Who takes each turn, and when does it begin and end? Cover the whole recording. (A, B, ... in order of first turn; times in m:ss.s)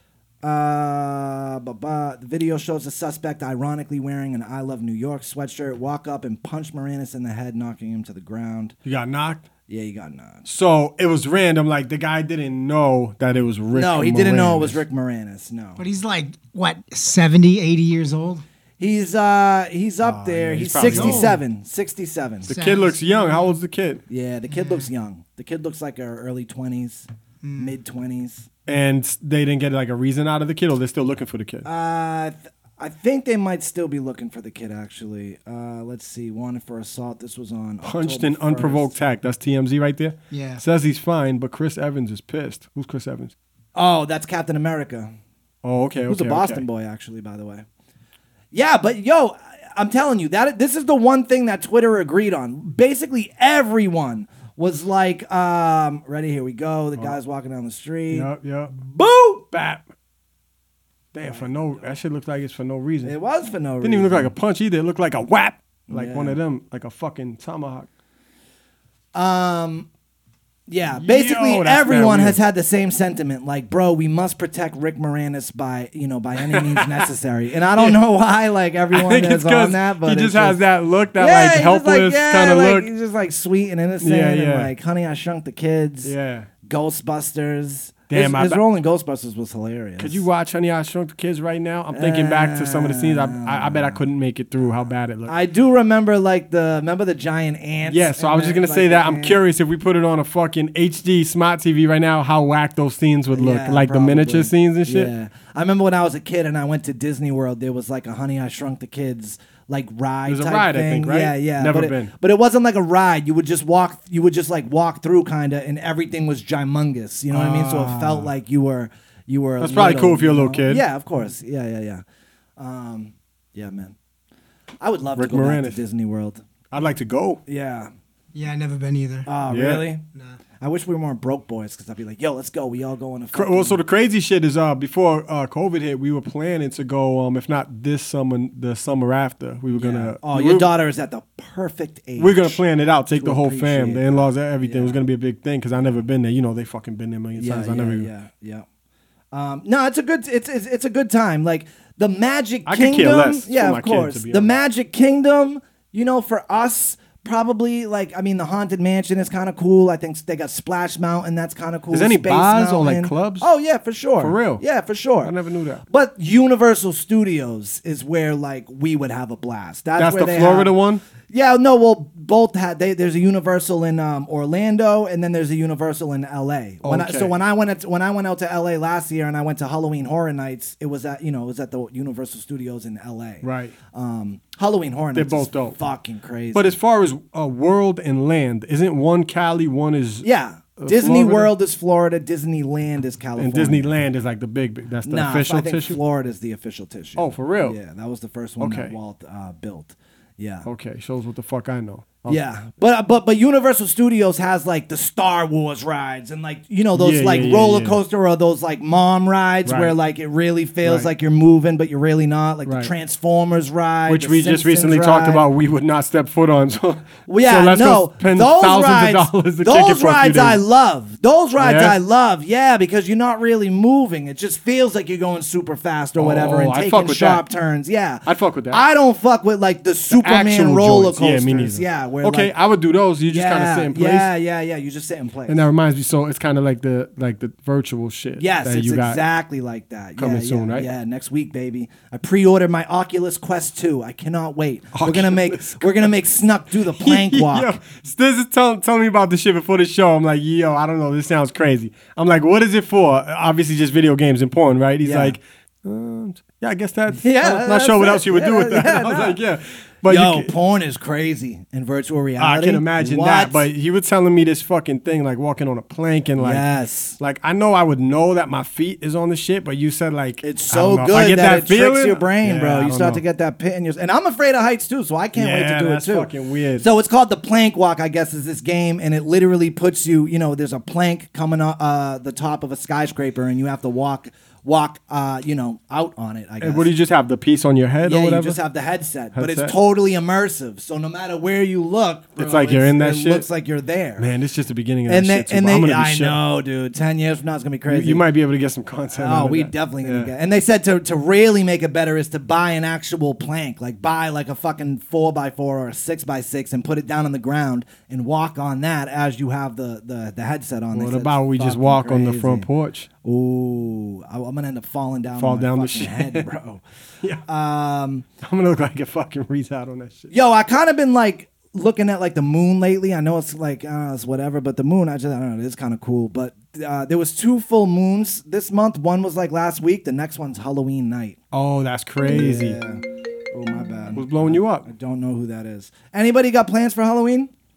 0:00.4-0:08.7 A
0:08.8-0:09.4 B
0:09.7-0:10.5 A
0:10.4-0:14.8 B
0:13.7-0:15.8 A
0:15.8-0:18.4 C
0:18.8-0:22.5 A
0:20.0-0:21.4 B
0:20.8-0:21.4 C
0:22.4-0:23.5 C
0:22.4-0:24.0 B
0:24.1-0:28.5 A
0:24.5-0:24.9 C
0:27.4-0:27.7 C
0:28.6-0:31.6 B
0:31.6-0:38.9 A
0:37.8-0:43.3 B
0:40.3-0:40.6 C
0:43.7-0:45.1 A
0:45.6-0:46.6 B
0:46.1-0:47.6 A
0:48.5-0:58.3 A
0:58.1-0:58.9 B
0:58.8-0:59.4 A
0:59.5-0:59.8 B
1:01.1-1:03.1 B
1:01.2-1:01.8 A
1:03.0-1:04.3 A
1:03.8-1:07.9 B
1:05.9-1:06.4 A
1:09.1-1:09.9 A
1:10.7-1:20.6 A
1:11.0-1:12.4 B
1:16.4-1:17.1 B
1:17.8-1:18.0 B
1:18.9-1:22.9 B
1:21.1-1:26.1 A
1:24.0-1:24.7 B
1:26.0-1:26.5 B
1:26.6-1:30.2 A
1:28.1-1:28.6 B
1:30.0-1:35.4 B
1:31.9-1:34.0 A
1:35.3-1:39.4 A
1:37.9-1:45.1 B
1:43.3-2:02.0 A
1:50.2-1:52.1 B
1:57.3-1:58.3 B
1:59.6-2:00.8 B
2:02.6-2:03.9 A
2:04.8-2:06.4 A
2:05.2-2:05.8 B
2:06.7-2:07.4 B
2:07.5-2:07.9 A
2:08.3-2:09.3 C
2:09.2-2:10.0 A
2:09.5-2:09.9 B
2:10.6-2:13.8 A
2:13.3-2:20.7 B
2:19.7-2:22.6 A
2:22.2-2:28.1 B
2:23.1-2:25.0 A
2:27.4-2:28.6 A
2:29.3-2:45.3 A
2:32.6-2:34.6 B
2:41.9-2:43.4 B
2:44.2-2:44.6 B
2:45.2-2:45.8 B
2:45.9-2:50.7 A
2:50.0-2:51.0 B
2:51.3-3:06.8 A
2:56.8-2:57.4 B
3:03.4-3:03.7 B
3:05.1-3:05.8 B
3:06.5-3:11.5 B
3:10.2-3:13.9 A
3:13.4-3:16.0 B
3:15.0-3:20.7 A
3:17.2-3:17.8 B
3:18.6-3:18.9 B
3:20.6-3:22.4 B
3:22.3-3:35.4 A
3:26.9-3:28.0 B
3:29.6-3:29.9 B
3:30.8-3:31.1 B
3:32.6-3:32.9 B
3:34.1-3:40.6 B
3:37.3-3:52.5 A
3:41.6-3:42.0 B
3:46.2-3:47.4 B
3:48.2-3:48.8 B
3:50.1-3:54.3 B
3:53.3-3:55.7 A
3:55.5-3:59.2 B
3:58.4-4:07.8 A
4:00.2-4:00.9 B
4:04.9-4:06.1 B
4:06.9-4:20.5 B
4:15.0-4:15.4 A
4:17.2-4:19.4 A
4:20.1-4:23.7 A
4:22.4-4:26.6 B
4:26.4-4:27.2 A
4:27.2-4:33.2 B
4:30.4-4:46.9 A
4:35.3-4:36.9 B
4:46.6-4:48.6 B
4:48.0-4:54.2 A
4:49.3-4:49.8 B
4:52.4-4:53.5 B
4:54.2-4:56.4 B
4:55.1-4:58.2 A
4:57.9-5:00.3 B
4:59.1-5:12.7 A
5:10.9-5:13.1 B
5:13.2-5:16.8 A
5:15.4-5:16.5 B
5:17.4-5:18.2 A
5:18.4-5:20.3 B
5:20.3-5:31.4 A
5:31.5-5:32.8 B
5:32.2-5:37.5 A
5:34.1-5:34.9 B